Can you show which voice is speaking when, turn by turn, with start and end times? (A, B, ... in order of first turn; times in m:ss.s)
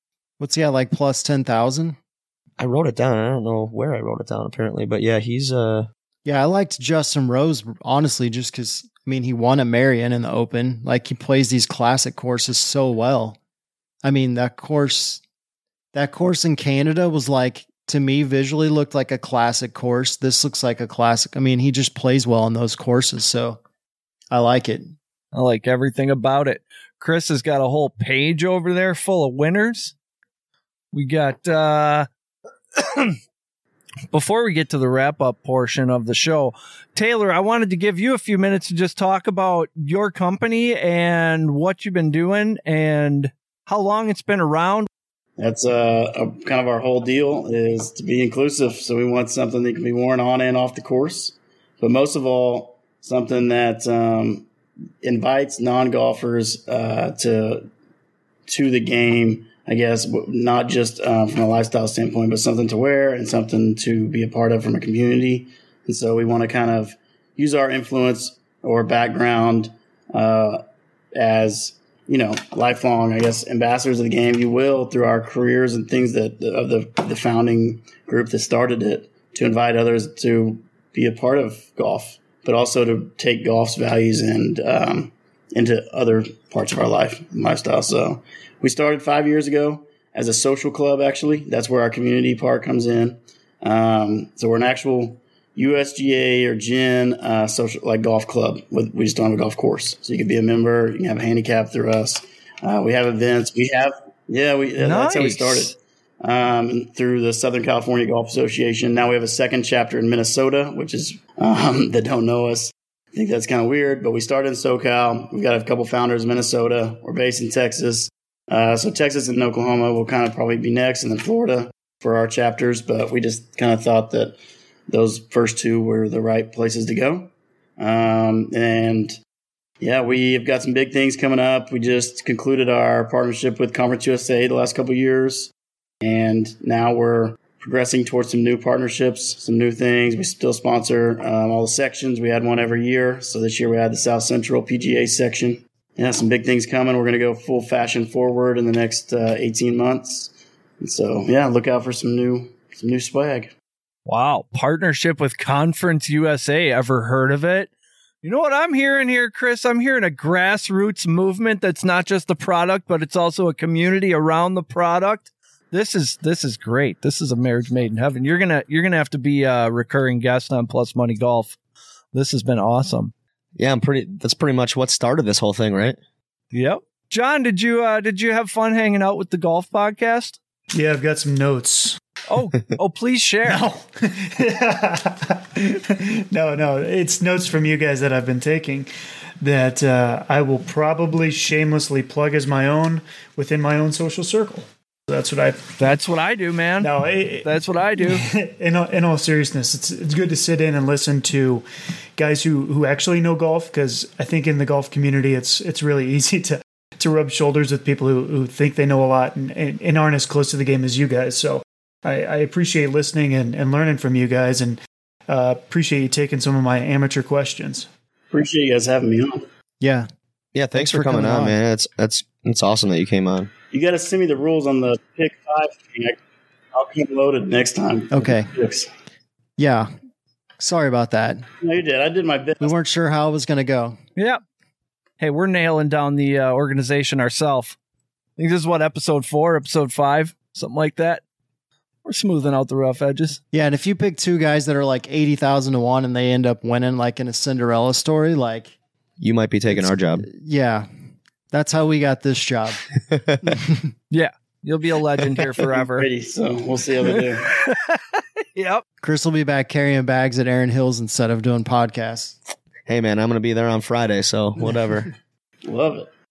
0:00.4-0:02.0 A
0:02.6-0:05.9 B
0:06.2-0:13.4 A
0:14.0-0:15.2 A
0:15.9-0:23.6 A
0:24.3-0:24.9 A
0:25.3-0:29.9 C
0:30.9-0:32.1 C
0:32.8-0:33.2 C
0:34.1-0:44.9 C
0:45.4-0:54.4 D
0:55.0-0:57.7 D
0:58.5-1:10.6 D
1:11.1-2:04.4 D
1:44.8-1:45.8 C
2:04.9-2:09.2 D
2:09.8-2:33.5 D
2:34.0-2:37.7 C
2:38.2-2:51.6 C
2:52.1-2:53.1 C
2:53.6-2:56.0 B
2:56.5-3:00.4 C
3:00.7-3:02.0 E
3:02.3-3:03.6 C
3:03.4-3:08.9 E
3:09.4-3:15.6 E
3:15.8-3:18.2 C
3:16.8-3:21.6 E
3:22.2-3:37.9 E
3:38.3-3:39.4 D
3:39.8-3:40.1 A
3:40.5-3:43.5 B
3:40.7-3:41.6 A
3:43.7-3:46.2 D
3:46.7-3:48.9 D
3:48.1-3:48.5 A
3:49.6-3:49.9 A
3:50.6-3:51.5 A
3:51.6-3:52.8 D
3:52.6-3:54.0 A
3:55.2-3:57.8 C
3:58.4-4:01.2 C
4:02.0-4:03.4 C
4:03.5-4:08.7 A
4:09.2-4:10.2 B
4:09.7-4:10.9 A
4:11.5-4:12.8 A
4:13.1-4:13.6 B
4:13.4-4:13.9 A
4:14.1-4:16.1 C
4:15.8-4:17.5 D
4:17.0-4:18.8 C
4:19.0-4:22.4 A
4:22.9-4:25.1 B
4:25.6-4:26.1 D